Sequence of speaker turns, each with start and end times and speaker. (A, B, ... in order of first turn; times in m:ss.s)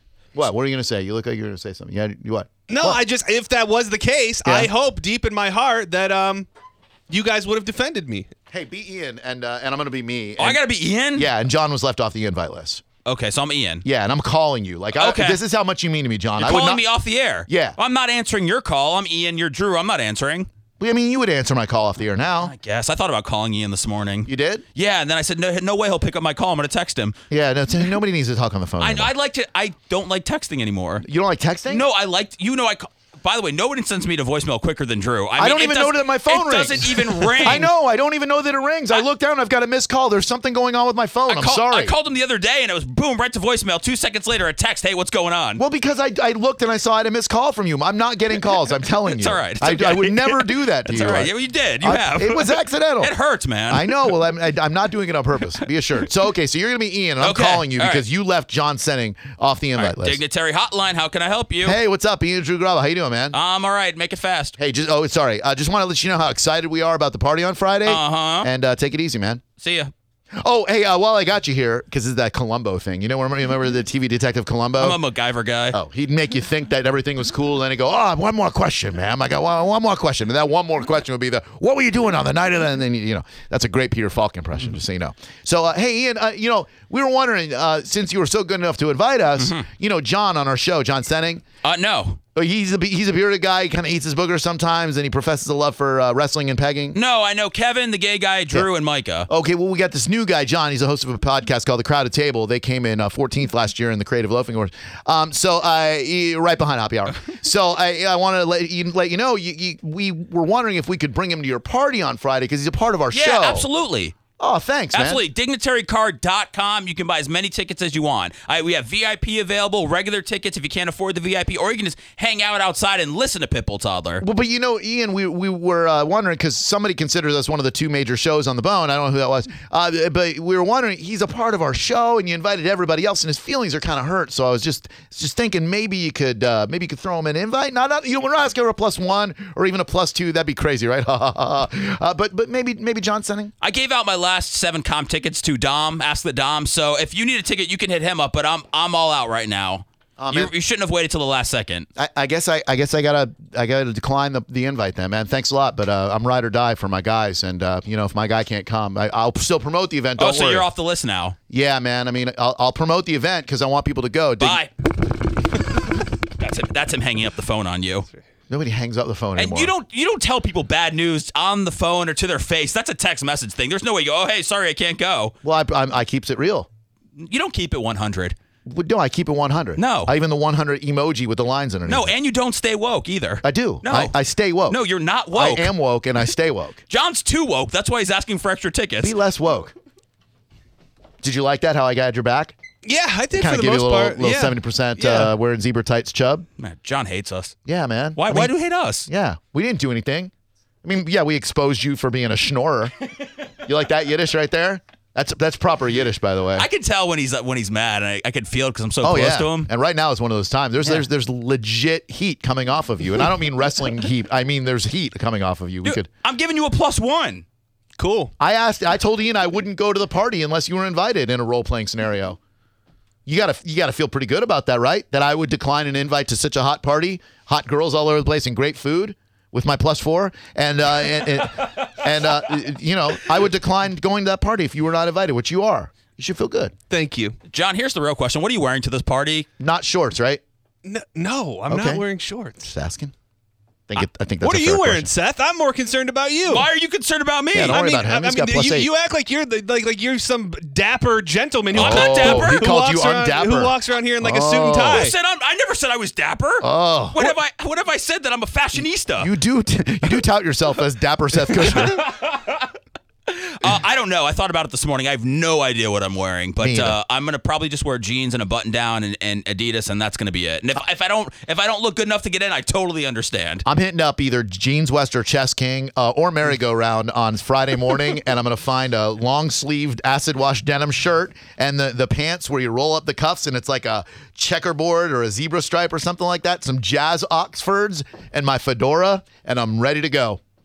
0:00.4-0:03.0 A
0:02.7-0:06.5 B
0:04.4-0:04.7 A
0:07.1-0:08.3 B
0:08.5-0:10.6 A
0:10.4-0:11.3 C
0:11.2-0:12.8 A
0:13.0-0:13.8 C
0:13.8-0:16.8 A
0:14.9-0:15.4 C
0:16.4-0:20.5 C
0:17.5-0:17.8 A
0:20.8-0:22.5 A
0:22.4-0:27.2 C
0:24.3-0:24.6 A
0:27.3-0:29.1 A
0:28.8-0:31.0 C
0:31.0-0:31.8 A
0:31.7-0:37.7 C
0:35.4-0:41.9 A
0:41.3-0:45.6 C
0:45.6-0:53.1 A
0:49.1-0:53.9 C
0:53.7-1:00.2 A
0:57.2-0:58.0 C
0:59.8-1:01.8 C
1:01.6-1:03.4 A
1:03.3-1:04.6 C
1:04.6-1:09.4 A
1:07.9-1:08.5 C
1:09.6-1:09.9 C
1:10.4-1:15.0 A
1:14.8-1:15.8 C
1:15.7-1:31.4 A
1:29.4-1:29.7 C
1:31.6-1:32.2 C
1:32.4-1:37.0 A
1:36.9-1:39.3 C
1:39.3-1:53.7 A
1:53.1-1:54.2 C
1:54.4-1:55.2 A
1:54.9-2:04.2 C
2:04.2-2:23.5 A
2:23.6-2:31.9 C
2:30.2-2:30.5 A
2:32.0-2:40.7 A
2:40.2-2:41.4 C
2:41.5-2:44.6 A
2:44.4-2:44.7 C
2:46.4-2:48.1 C
2:48.5-2:49.7 A
2:49.4-2:55.4 C
2:55.4-2:56.7 A
2:57.2-2:58.4 C
2:58.7-3:02.1 A
2:59.8-3:00.1 C
3:01.9-3:04.2 C
3:03.4-3:04.8 A
3:04.7-3:05.7 C
3:05.3-3:06.8 A
3:06.9-3:09.2 C
3:09.0-3:09.7 A
3:11.2-3:12.6 A
3:12.8-3:15.3 B
3:13.3-3:16.5 A
3:16.6-3:17.6 C
3:17.7-3:18.5 A
3:18.2-3:19.1 C
3:19.1-3:20.3 A
3:20.8-3:23.0 A
3:23.5-3:26.7 A
3:26.6-3:29.7 C
3:29.0-3:36.1 A
3:35.8-3:37.4 C
3:38.0-3:38.3 B
3:38.4-3:42.4 A
3:43.3-3:56.7 A
3:56.9-3:57.4 B
3:57.5-3:59.5 C
3:59.6-4:00.4 A
4:00.8-4:02.7 B
4:01.7-4:02.0 A
4:02.7-4:03.1 A
4:03.9-4:05.1 A
4:04.4-4:06.7 B
4:06.5-4:07.8 C
4:07.5-4:08.9 A
4:07.7-4:15.2 B
4:11.7-4:15.1 A
4:11.8-4:12.7 C
4:14.9-4:19.3 C
4:16.6-4:17.4 A
4:19.2-4:22.1 A
4:21.8-4:22.7 C
4:23.3-4:33.6 C
4:26.6-4:27.0 A
4:33.6-4:50.4 A